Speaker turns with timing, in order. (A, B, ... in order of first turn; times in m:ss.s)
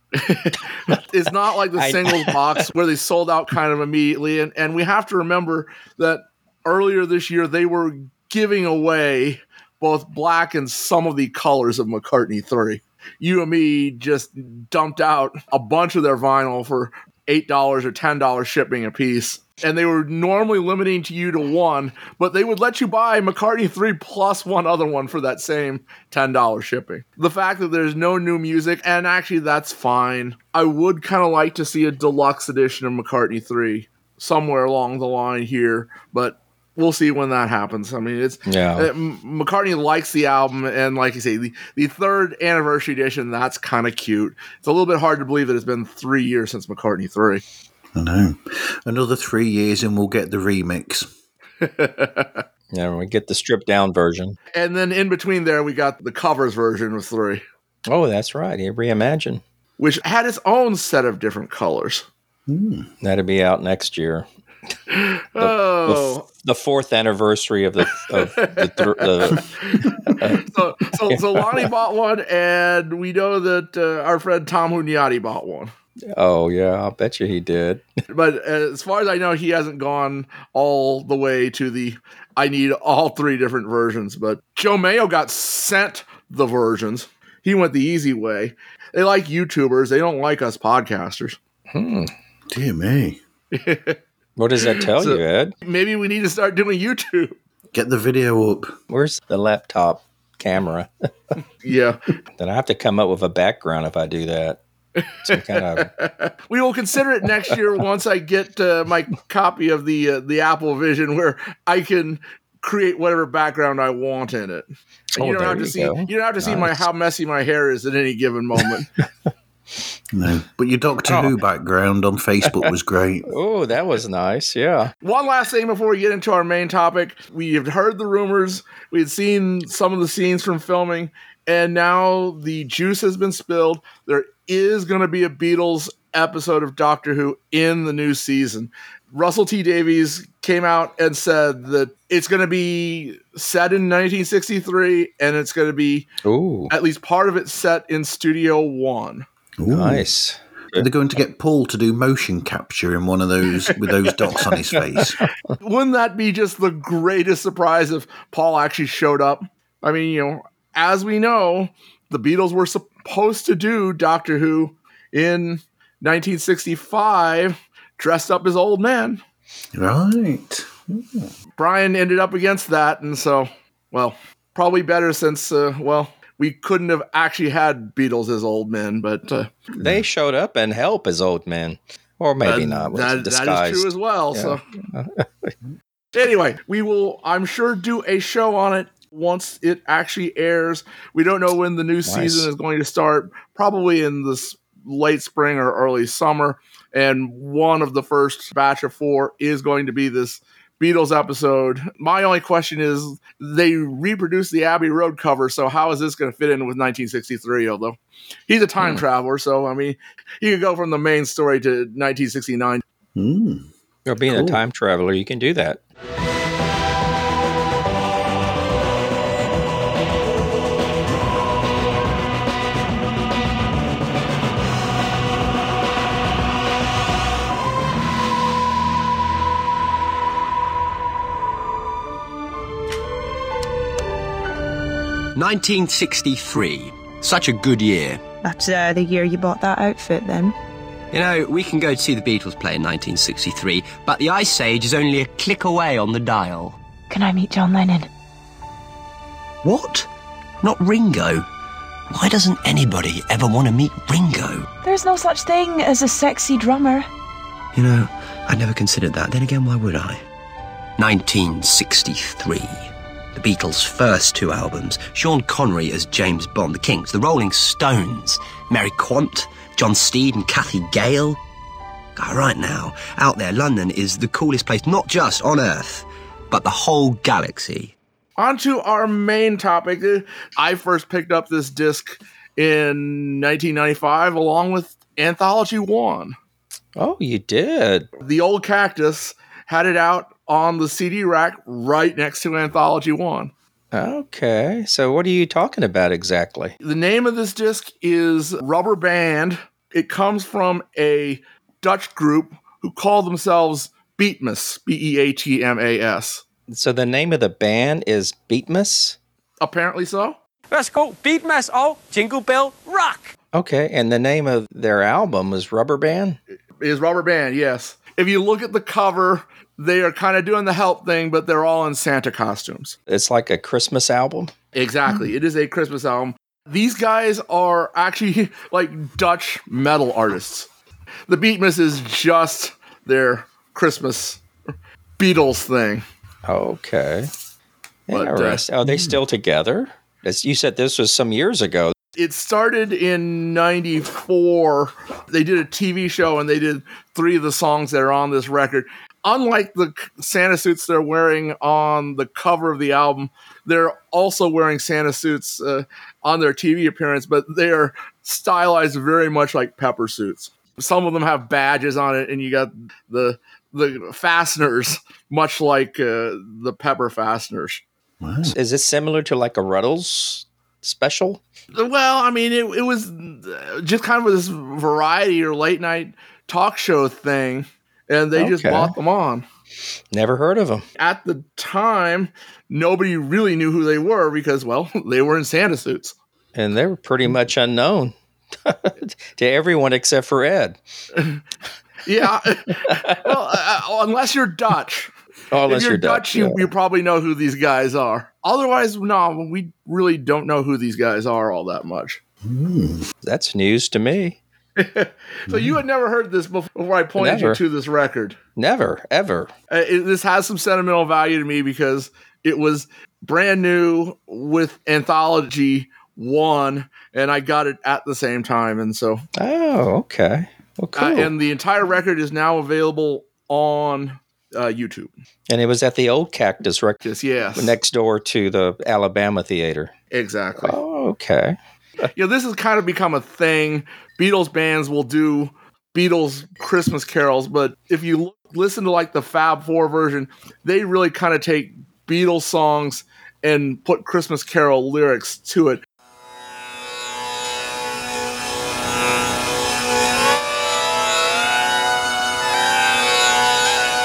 0:00.2-0:47.4 A
0:01.8-0:02.6 B
0:38.5-0:38.9 B
0:48.0-0:51.1 C
0:51.6-0:52.4 A
0:52.7-0:54.4 B
0:54.5-0:57.4 A
0:57.9-0:59.4 B
0:59.8-1:02.1 A
1:02.5-1:02.9 C
1:03.0-1:04.3 B
1:04.9-1:06.2 A
1:05.4-1:09.5 B
1:08.0-1:09.9 A
1:10.1-1:10.5 B
1:10.5-1:15.7 A
1:11.1-1:11.6 B
1:16.2-1:17.8 B
1:18.1-1:31.4 A
1:31.7-1:32.1 B
1:32.5-1:33.2 C
1:33.5-1:34.0 A
1:34.4-1:35.5 B
1:34.8-1:37.4 A
1:37.7-1:38.8 C
1:38.9-1:40.9 B
1:41.6-1:42.0 A
1:42.4-1:44.6 B
1:45.0-1:58.9 A
1:45.2-1:45.9 B
1:55.2-1:56.8 B
2:00.1-2:03.3 C
2:01.1-2:01.3 B
2:03.3-2:04.9 B
2:05.0-2:26.1 A
2:26.2-2:26.7 B
2:26.7-2:29.3 A
2:29.6-2:30.1 C
2:29.7-2:30.9 B
2:30.7-2:35.2 C
2:34.7-2:35.3 B
2:35.6-2:49.2 A
2:49.7-2:51.3 C
2:51.6-2:59.5 A
2:59.7-3:00.0 C
2:59.8-3:05.5 B
3:02.4-3:04.6 A
3:06.2-3:32.8 A
3:12.1-3:12.5 B
3:33.2-3:33.7 C
3:34.1-3:35.8 B
3:34.3-3:34.6 C
3:55.4-3:58.2 D
3:58.4-4:00.6 E
4:01.1-4:06.8 D
4:07.1-4:08.1 E
4:09.6-4:10.1 D
4:10.6-4:11.5 D
4:12.1-4:14.7 D
4:14.8-4:17.1 E
4:17.8-4:20.2 D
4:21.0-4:31.4 D
4:32.2-4:37.9 D
4:38.4-4:46.4 A
4:47.0-4:48.1 B
4:48.2-4:53.5 A
4:53.9-4:56.8 B
4:56.8-5:06.4 A
5:06.7-5:09.2 B
5:09.6-5:10.4 A
5:10.7-5:13.3 F
5:13.5-5:16.4 B
5:16.8-5:23.0 A
5:23.1-5:24.5 B
5:24.7-5:30.7 A
5:31.3-5:34.4 A
5:35.2-5:36.0 A
5:36.5-5:37.3 B
5:38.1-5:41.9 B
5:38.1-5:38.6 A
5:38.8-5:39.2 C
5:42.2-6:07.8 A
6:08.2-6:08.6 C
6:08.5-6:11.4 B
6:11.7-6:19.4 A
6:18.4-6:18.9 B
6:20.1-6:20.8 B
6:21.0-6:26.2 A
6:26.6-6:30.8 B
6:32.0-6:35.1 A
6:35.5-6:36.7 B
6:35.7-6:42.2 A
6:42.4-6:43.1 C
6:43.2-6:44.4 B
6:44.8-6:48.4 A
6:45.5-6:45.8 C
6:47.2-6:47.6 B
6:48.6-6:49.5 B
6:49.7-6:59.2 A
6:59.4-7:01.3 B
7:01.0-7:05.1 A
7:05.5-7:09.9 B
7:07.1-7:07.7 A
7:10.1-7:10.8 A
7:10.6-7:11.6 B
7:12.1-7:25.8 A